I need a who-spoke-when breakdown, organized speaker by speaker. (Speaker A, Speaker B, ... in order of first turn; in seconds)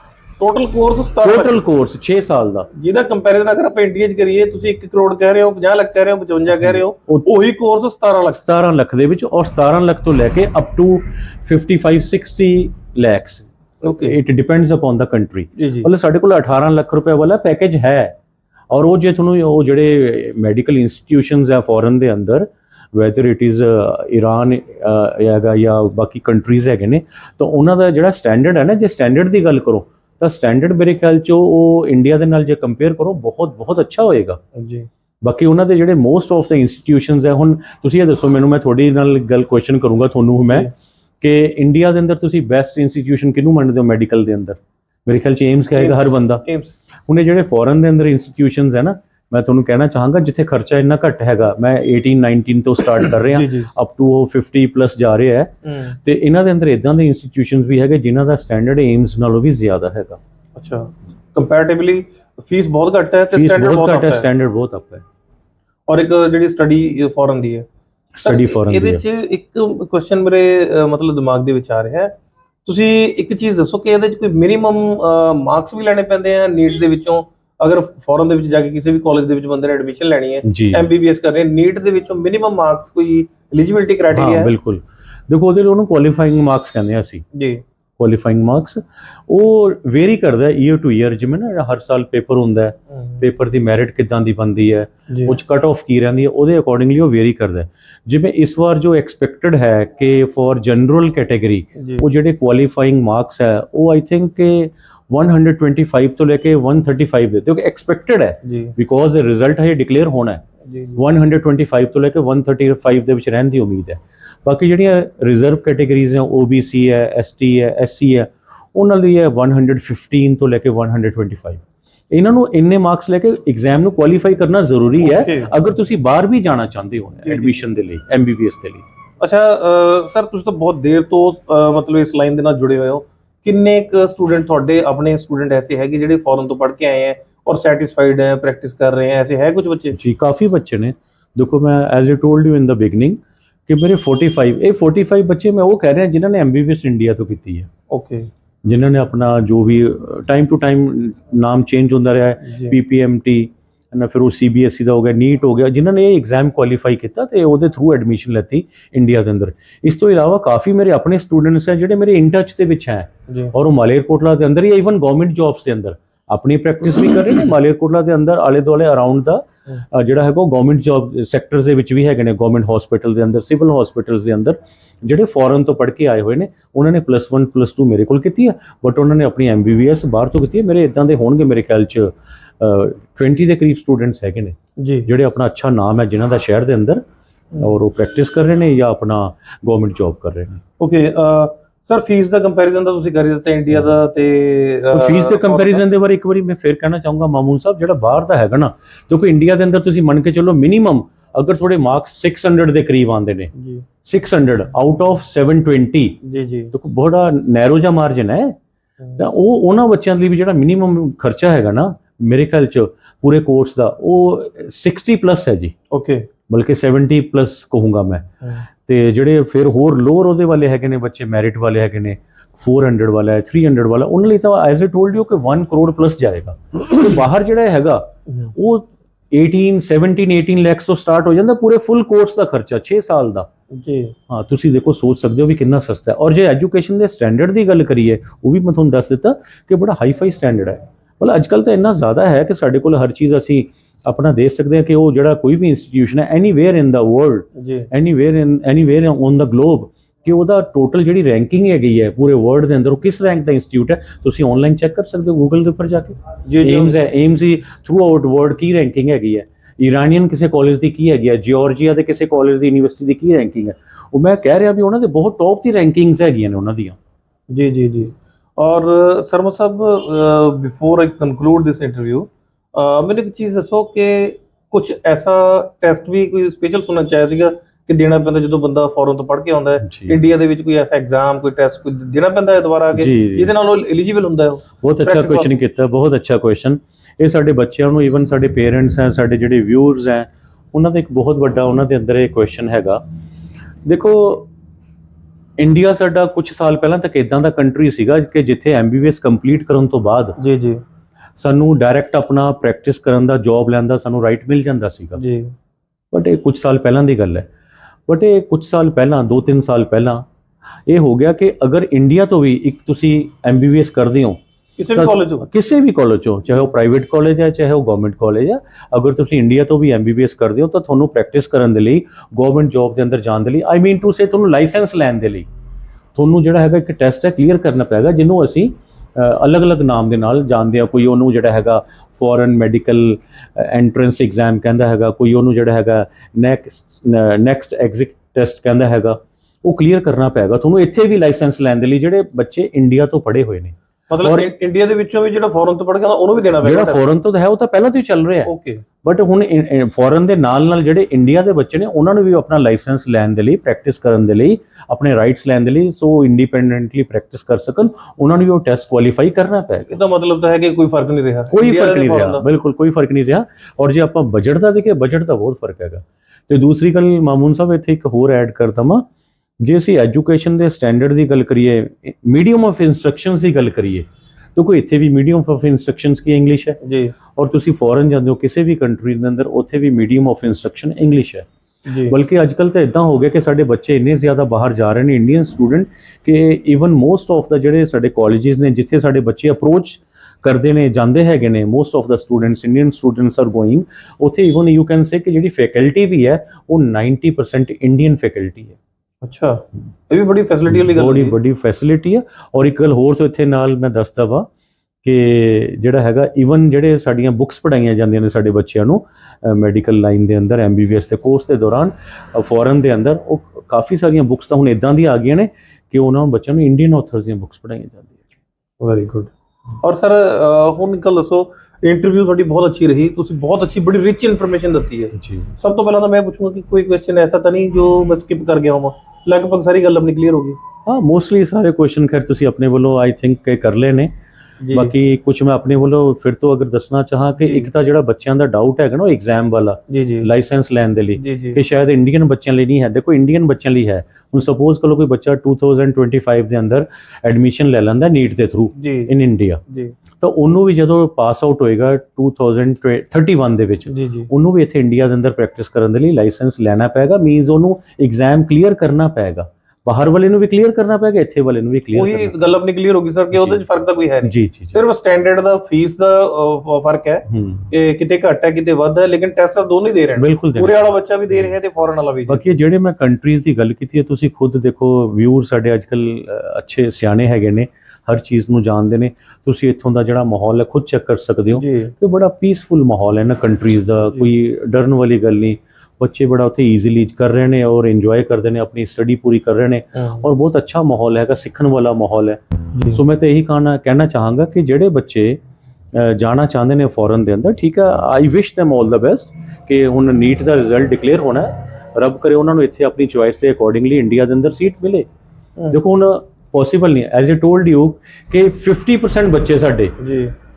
Speaker A: 0.4-1.6, 2.7-8.4, 13.8-14.2, 15.6-15.9, 34.5-34.9, 45.7-46.7, 53.2-53.7, 55.6-56.0, 60.6-64.3, 65.9-67.7, 68.2-84.5, 87.3-87.6, 95.1-95.4, 101.8-102.1, 108.5-108.7, 110.6-111.0, 125.0-125.5, 127.2-127.6, 129.2-140.0, 147.9-148.3, 152.4-152.8, 163.3-163.5, 184.8-185.1, 190.8-195.8, 203.6-203.9, 206.2-206.7, 215.9-216.3, 228.3-228.6, 233.7-234.2, 247.6-247.9, 256.5-256.9, 267.5-285.5, 300.4-300.8, 305.2-305.5, 314.8-315.5, 344.1-347.0, 348.5-348.8, 359.9-362.4, 376.8-377.1, 381.9-382.2, 399.2-401.4, 418.8-430.6, 434.6-434.9, 437.4-437.7, 439.9-440.3, 441.2-441.6, 448.8-449.1, 449.7-449.9, 453.9-454.3, 461.9-472.5, 481.6-481.9, 489.9-490.3, 492.8-493.0, 510.0-510.3
Speaker B: 1.2-2.7, 6.6-7.3, 8.3-13.4, 14.0-18.1, 18.7-34.4, 35.2-46.4, 47.1-55.5, 56.0-60.2, 63.3-65.0, 68.2-69.0, 80.4-80.9, 84.1-87.2, 88.0-110.4, 111.0-128.8, 139.9-147.7, 148.7-187.0, 187.6-190.6, 194.9-203.5, 204.0-206.2, 206.7-208.6, 209.2-215.7, 216.5-218.3, 218.9-233.5, 234.3-267.0, 279.8-280.2, 282.9-283.5, 284.8-293.0, 293.9-294.5, 295.6-300.4, 301.4-305.2, 306.1-307.5, 308.1-310.2, 310.9-314.4, 314.9-325.5, 326.2-344.5, 346.6-348.5, 349.0-359.9, 361.5-369.0, 369.6-374.1, 374.6-376.8, 377.3-381.5, 382.1-398.8, 400.7-404.5, 405.0-418.2, 425.2-425.5, 430.9-434.1, 434.7-449.6, 450.2-462.4, 463.3-463.6, 464.2-464.8, 467.3-467.7, 470.2-471.5, 472.3-492.4, 492.9-495.4, 495.9-505.1, 505.7-509.9